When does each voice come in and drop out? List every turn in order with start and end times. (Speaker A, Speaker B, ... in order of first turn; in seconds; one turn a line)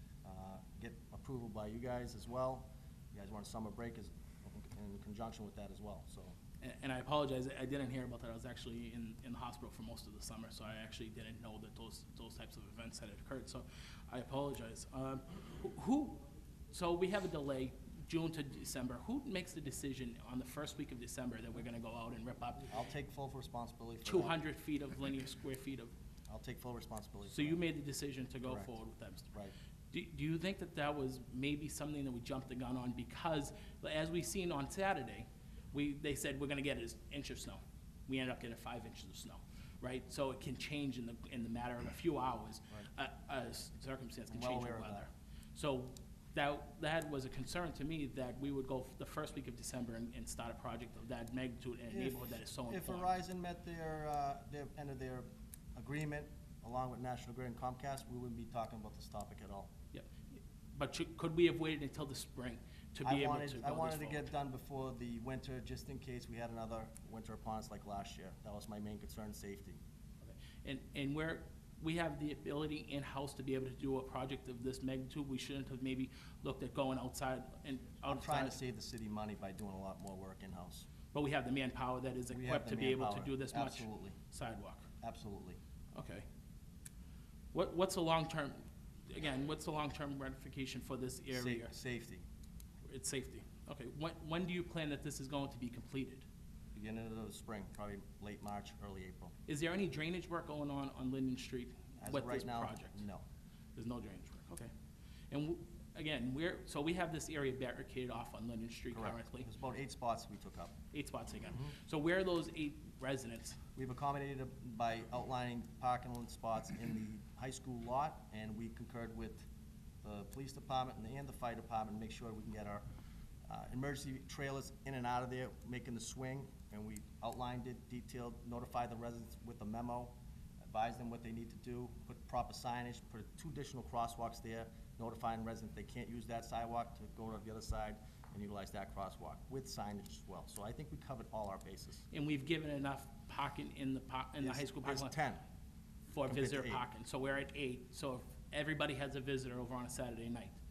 Speaker A: 0.2-6.3
Speaker B: 6.6-22.7
Speaker A: 22.7-24.4
Speaker B: 24.1-25.9
Speaker A: 26.3-27.6
Speaker B: 27.3-29.3
Speaker A: 28.4-28.7
Speaker B: 29.9-53.1
Speaker A: 44.3-45.0
Speaker A: 51.9-59.7
Speaker B: 59.9-64.3
Speaker A: 63.0-69.8
Speaker B: 70.2-78.6
Speaker A: 78.1-80.9
Speaker B: 81.1-84.9
Speaker A: 82.3-84.2
Speaker A: 85.0-85.6
Speaker B: 85.9-86.3
Speaker B: 87.5-91.7
Speaker A: 91.3-92.2
Speaker B: 92.8-96.2
Speaker A: 96.8-99.3
Speaker B: 99.5-103.0
Speaker A: 102.0-103.2
Speaker B: 103.8-104.7
Speaker B: 105.3-109.5
Speaker A: 108.9-110.8
Speaker B: 110.9-113.6
Speaker A: 113.8-119.5
Speaker A: 120.0-122.9
Speaker A: 123.5-142.1
Speaker B: 142.1-145.1
Speaker A: 144.4-145.4
Speaker B: 146.1-150.6
Speaker A: 146.2-146.8